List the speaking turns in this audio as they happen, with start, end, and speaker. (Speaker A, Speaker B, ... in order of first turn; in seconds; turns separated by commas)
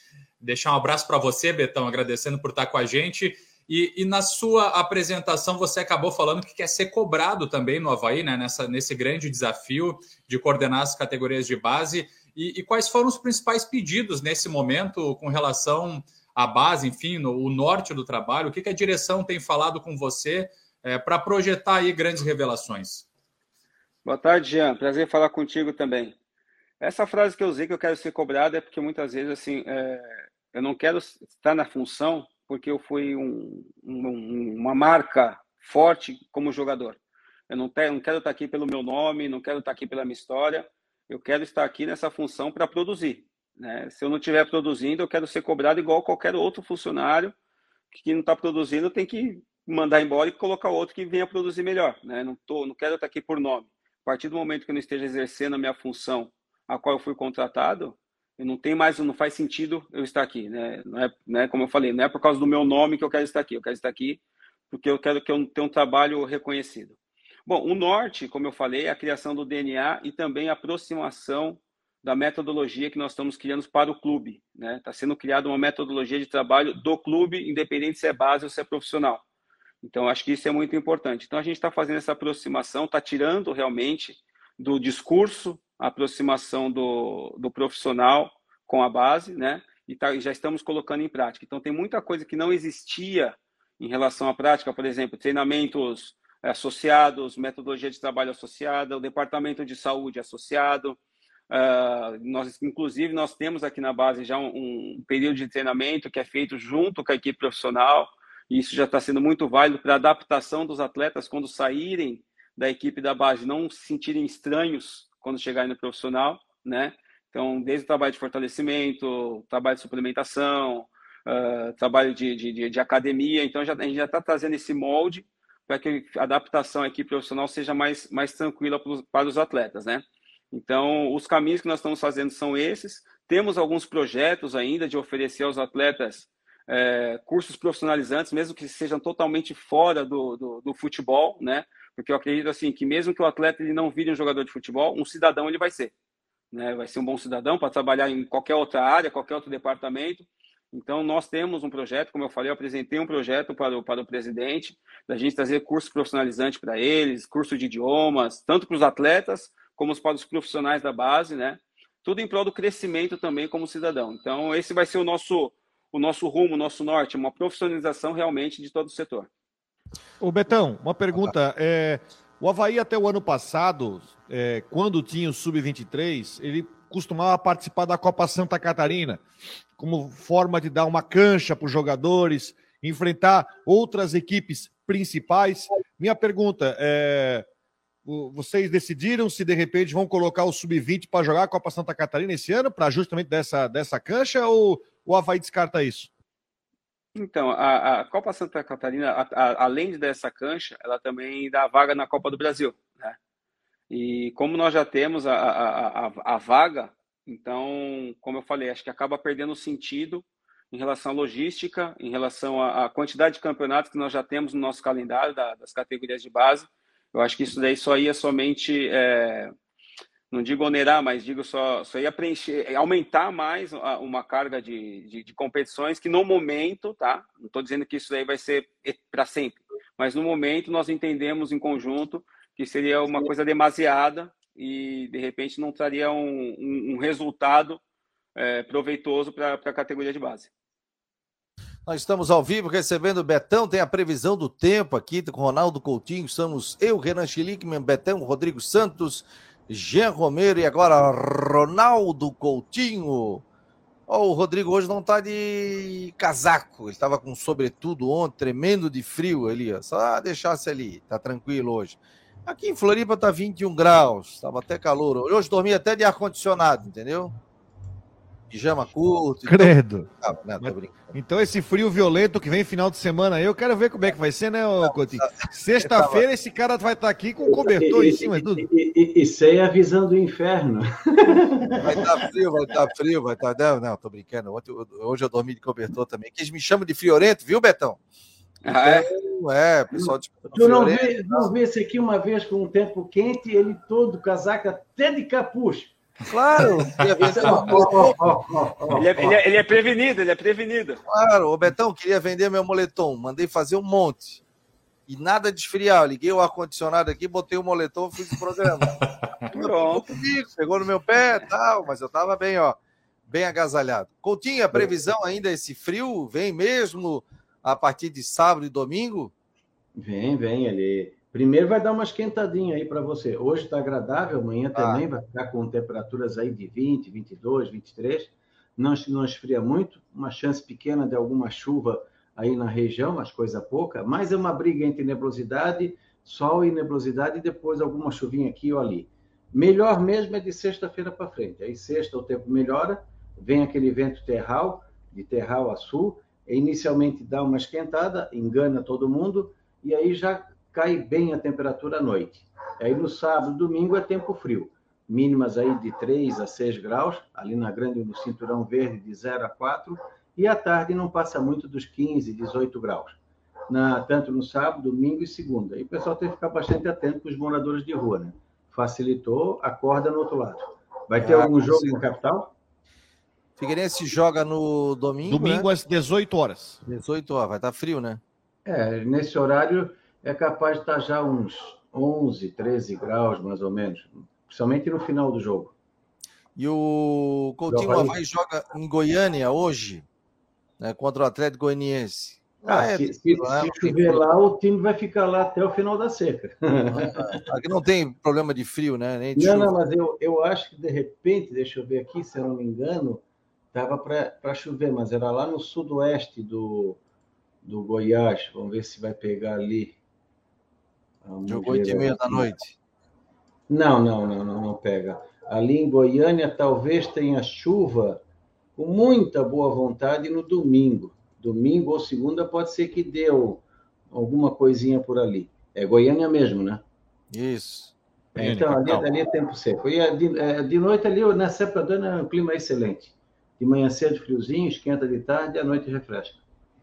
Speaker A: 0.4-23.0, Speaker B: 24.0-26.1, Speaker B: 26.8-47.3, Speaker B: 47.9-66.9, Speaker B: 67.5-79.2, Speaker B: 79.8-101.0, Speaker B: 101.5-145.9, Speaker B: 146.5-169.3, Speaker C: 170.2-179.2, Speaker C: 179.8-187.4, Speaker C: 188.1-196.1, Speaker B: 197.2-203.2, Speaker B: 203.9-219.5, Speaker B: 220.3-237.8, Speaker B: 238.3-240.5, Speaker D: 241.8-253.4, Speaker D: 254.1-267.3, Speaker D: 268.5-271.2, Speaker C: 269.4-278.7, Speaker D: 274.9-276.2, Speaker E: 277.5-282.1, Speaker D: 281.8-288.0, Speaker B: 288.6-289.1, Speaker D: 288.7-291.5, Speaker E: 289.9-295.9, Speaker D: 296.3-298.2, Speaker E: 297.2-299.3, Speaker B: 298.9-301.0, Speaker D: 301.1-304.4, Speaker D: 305.1-309.0, Speaker D: 309.5-312.8, Speaker B: 309.5-310.1, Speaker D: 313.3-319.3, Speaker E: 319.9-372.5, Speaker D: 324.7-325.0, Speaker D: 371.2-372.0, Speaker D: 373.6-375.7, Speaker C: 375.3-376.8, Speaker D: 376.9-378.2, Speaker E: 378.6-385.7, Speaker D: 386.6-390.0, Speaker E: 387.7-388.1, Speaker D: 390.8-394.2, Speaker E: 392.6-397.4, Speaker D: 396.9-399.7, Speaker E: 399.4-407.0, Speaker E: 407.6-410.0, Speaker E: 411.2-412.5, Speaker D: 411.5-412.7, Speaker E: 413.7-418.2, Speaker E: 418.8-426.8, Speaker D: 427.3-427.9, Speaker C: 428.4-429.0, Speaker E: 428.4-436.4